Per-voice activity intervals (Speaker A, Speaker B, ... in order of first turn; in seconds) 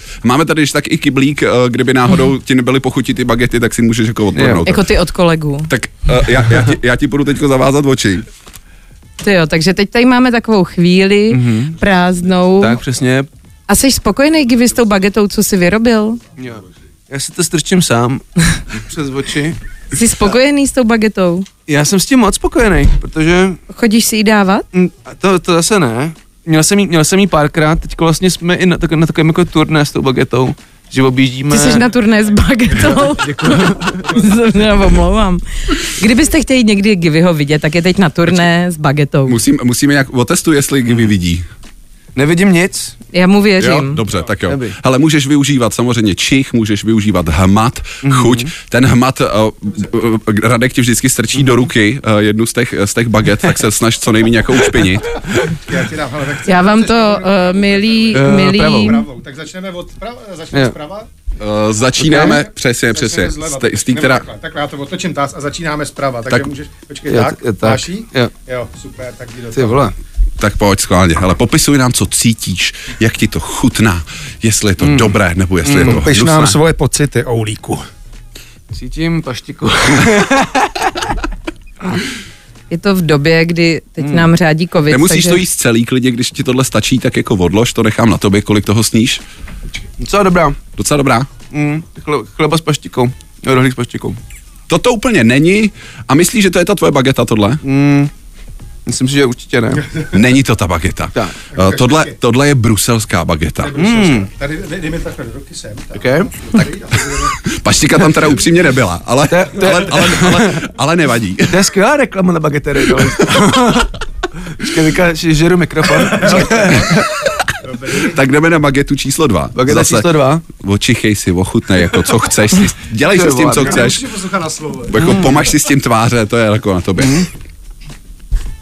Speaker A: 0.2-4.9, 5.7-8.3, 39.3-41.5, 43.6-55.3, 61.4-64.2, 70.4-76.6, 84.9-89.2, 90.8-91.3, 94.7-97.6, 100.1-103.8, 107.5-111.6, 117.9-124.1, 124.9-127.3
Speaker B: 4.3-4.7, 11.3-11.8, 12.6-13.3, 16.4-19.6, 21.7-23.6, 24.7-31.9, 32.9-34.2, 42.1-43.0, 44.5-44.8, 48.0-48.5, 54.8-55.5, 58.1-59.0, 62.0-62.4, 67.1-68.3, 69.5-70.0, 74.8-76.1, 78.7-81.1, 84.0-84.3, 90.0-90.6, 91.5-94.2, 97.6-98.1, 98.9-99.9, 103.8-104.3, 106.0-106.3, 109.3-110.7, 111.5-117.3, 119.5-120.4, 123.1-124.0, 125.0-125.4, 127.0-127.3
Speaker C: 4.7-5.7, 9.2-12.8, 13.7-16.2, 19.9-21.5, 23.7-24.6, 31.5-39.4, 43.1-44.0, 56.4-59.0, 82.7-85.4
Speaker D: 55.5-61.1, 62.1-69.9, 75.8-77.9, 101.5-102.2, 103.6-107.4, 116.3-116.9, 117.6-118.2, 123.5-125.2